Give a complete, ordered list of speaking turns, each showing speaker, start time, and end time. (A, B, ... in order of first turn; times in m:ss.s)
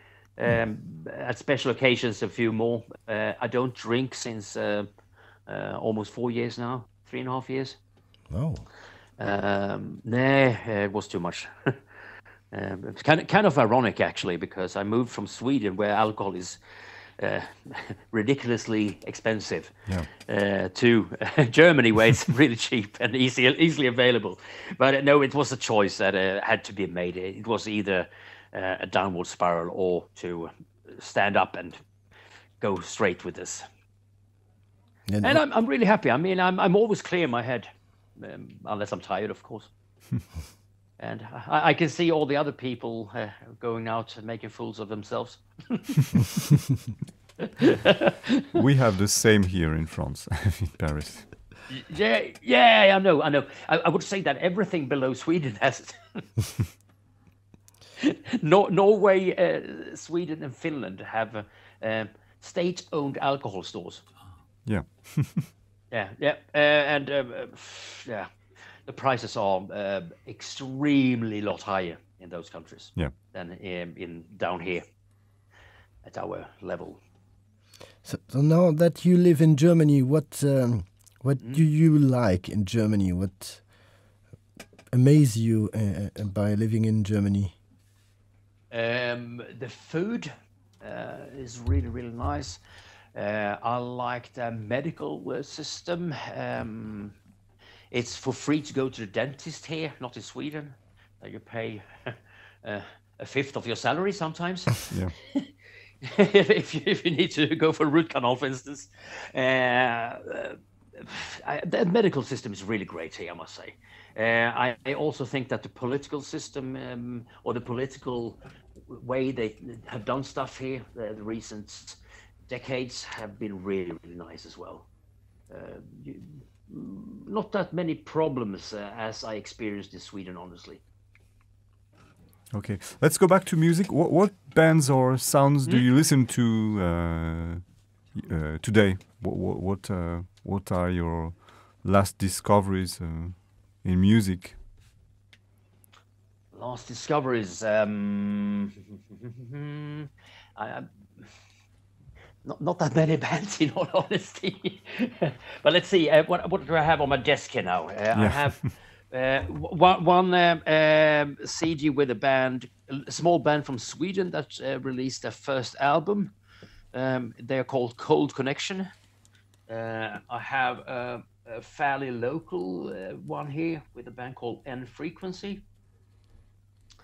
0:00.4-0:04.9 A
0:05.5-0:07.8 A
0:08.3-0:08.6 B
0:09.2-0:11.8 A
0:12.5-0:16.6 A
0:17.2-0:31.8 A
0:32.6-0:33.6 A
0:35.1-0:35.4 B
0:35.2-0:39.7 A
0:41.0-0:45.9 A
0:47.4-0:48.5 A
0:48.5-0:51.4 C
0:51.7-0:56.2 A
0:58.0-1:04.0 A
1:04.6-1:05.5 C
1:05.9-1:08.3 A
1:08.8-1:14.8 A
1:16.0-1:17.0 A
1:18.0-1:23.6 B
1:24.9-1:27.5 B
1:28.7-1:32.6 A
1:33.1-1:37.1 A
1:37.9-1:45.5 A
1:46.0-2:04.9 A
2:05.5-2:10.8 A
2:12.5-2:24.6 C
2:26.5-2:31.2 A
2:32.4-2:46.3 A
2:38.1-2:38.5 C
2:46.9-2:48.9 A
2:49.7-2:55.6 A